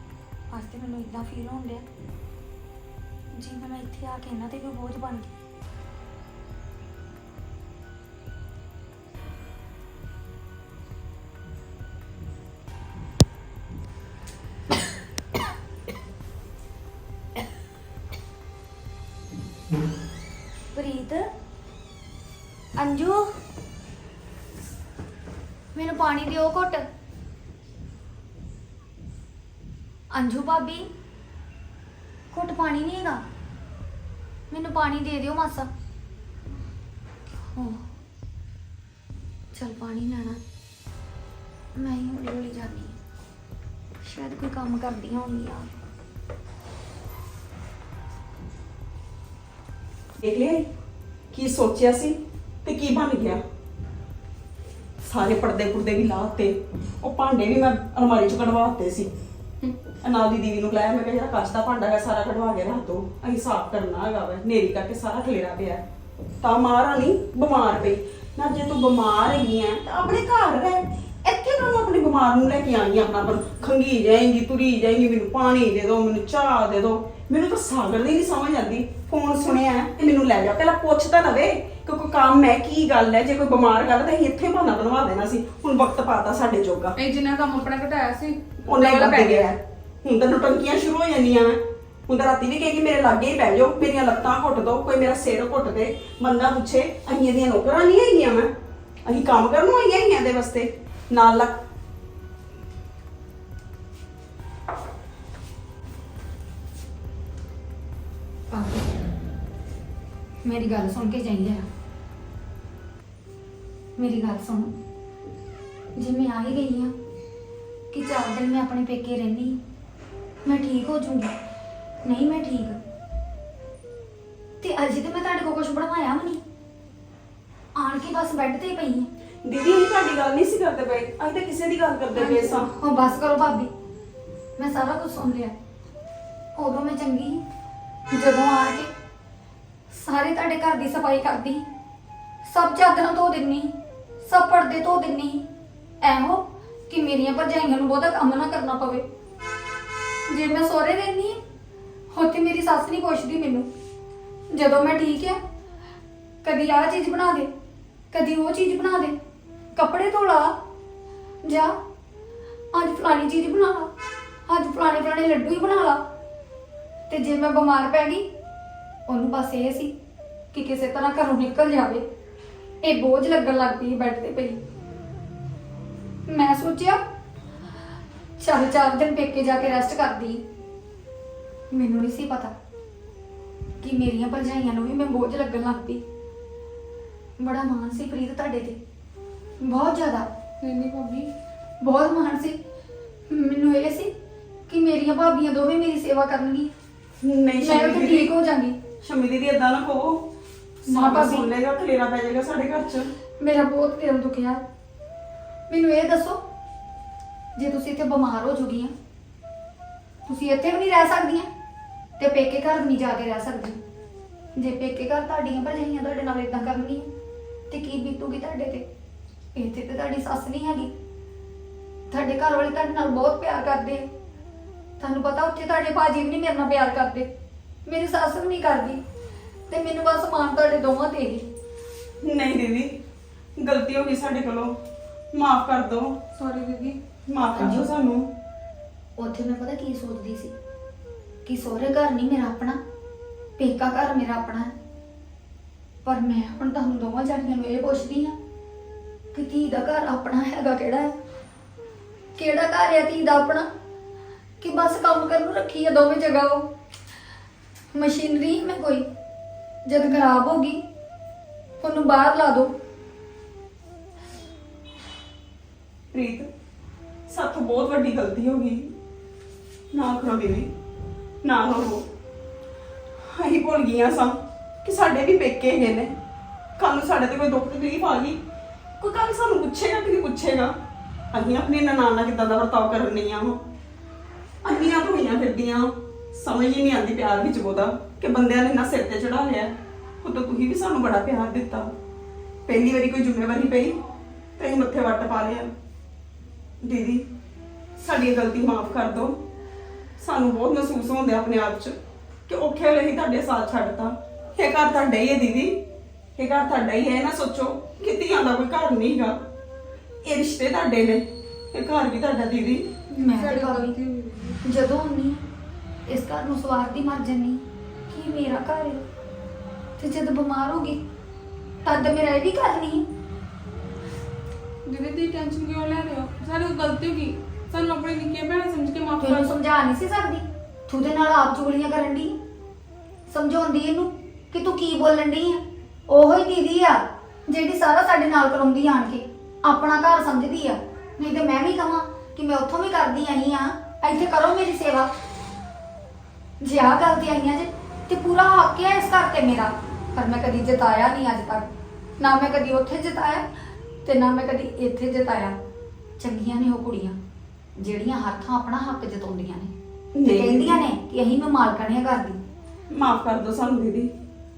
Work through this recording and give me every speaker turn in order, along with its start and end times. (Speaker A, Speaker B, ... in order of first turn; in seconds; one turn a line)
Speaker A: 0.5-1.9
Speaker A: 3.3-5.3
Speaker A: 20.7-21.3
Speaker A: 22.8-23.3
Speaker A: 25.7-26.9
Speaker A: 30.1-30.9
Speaker A: 32.3-33.2
Speaker A: 34.5-35.7
Speaker A: 37.5-37.9
Speaker A: 39.5-40.4
Speaker A: 41.8-43.0
Speaker A: 44.0-45.8
Speaker B: 50.2-50.7
Speaker B: 51.3-53.4
Speaker B: 55.0-59.1
Speaker B: 60.0-65.8
Speaker B: 66.4-86.9
Speaker C: 87.0-89.5
Speaker B: 88.7-98.5
Speaker B: 99.0-101.6
Speaker A: 108.5-109.0
Speaker A: 110.4-111.7
Speaker A: 114.0-114.7
Speaker A: 116.0-116.9
Speaker A: 117.9-119.6
Speaker A: 120.4-121.3
Speaker A: 122.0-122.8
Speaker A: 124.6-126.4
Speaker A: 127.8-129.1
Speaker B: 129.4-132.7
Speaker A: 132.2-133.7
Speaker A: 134.6-135.6
Speaker A: 136.6-137.4
Speaker A: 138.1-138.9
Speaker A: 139.9-141.6
Speaker A: 142.4-145.4
Speaker A: 146.0-149.1
Speaker A: 150.3-151.4
Speaker A: 152.1-153.7
Speaker A: 154.5-155.4
Speaker A: 156.4-157.5
Speaker A: 158.1-159.2
Speaker A: 159.8-160.5
Speaker A: 161.4-161.8
Speaker A: 162.7-163.9
Speaker A: 164.5-166.0
Speaker A: 167.1-168.3
Speaker A: 169.1-169.9
Speaker A: 170.5-172.1
Speaker A: 172.8-174.6
Speaker A: 176.3-177.0
Speaker A: 178.4-180.4
Speaker A: 181.7-182.5
Speaker A: 183.8-186.0
Speaker A: 187.4-188.8
Speaker A: 189.6-190.3
Speaker C: 190.6-191.3
Speaker A: 191.8-192.6
Speaker A: 193.3-194.1
Speaker A: 194.7-196.7
Speaker B: 197.2-198.3
Speaker A: 197.6-198.8
Speaker B: 199.0-200.3
Speaker A: 200.8-201.5
Speaker B: 200.9-203.1
Speaker A: 203.4-204.6
Speaker A: 205.7-206.4
Speaker A: 207.6-208.9
Speaker A: 210.3-211.5
Speaker A: 212.2-213.8
Speaker A: 214.6-217.1
Speaker A: 217.7-218.9
Speaker A: 219.6-220.9
Speaker A: 222.1-224.1
Speaker A: 225.0-227.3
Speaker A: 227.9-229.0
Speaker A: 229.7-231.4
Speaker B: 232.2-233.0
Speaker B: 233.6-234.8
Speaker B: 235.3-236.2
Speaker C: 236.3-237.0
Speaker B: 237.3-238.3
Speaker A: 237.6-237.9
Speaker A: 239.2-240.5
Speaker A: 241.4-242.8
Speaker A: 243.6-244.7
Speaker A: 246.1-248.4
Speaker A: 249.3-251.1
Speaker A: 252.4-253.7
Speaker A: 254.6-256.7
Speaker A: 257.9-259.1
Speaker A: 259.9-260.8
Speaker A: 261.8-262.7
Speaker B: 266.1-266.5
Speaker B: 267.3-268.9
Speaker B: 269.9-270.7
Speaker B: 271.4-272.1
Speaker B: 273.2-276.1
Speaker B: 276.8-278.4
Speaker B: 279.0-280.8
Speaker B: 281.3-283.6
Speaker B: 284.6-291.9
Speaker B: 292.6-294.0
Speaker B: 294.6-295.7
Speaker B: 296.8-297.3
Speaker B: 298.0-299.4
Speaker B: 300.2-305.8
Speaker B: 306.4-309.4
Speaker B: 310.2-312.9
Speaker A: 313.2-313.9
Speaker C: 313.2-314.6
Speaker A: 314.6-315.4
Speaker A: 316.1-319.1
Speaker A: 320.0-321.0
Speaker A: 321.9-323.1
Speaker C: 324.9-329.5
Speaker A: 329.2-332.4
Speaker A: 333.3-345.1
Speaker A: 346.6-353.5
Speaker A: 354.1-355.6
Speaker A: 356.2-357.2
Speaker A: 357.8-359.7
Speaker B: 360.1-360.8
Speaker A: 360.2-362.4
Speaker B: 362.9-364.1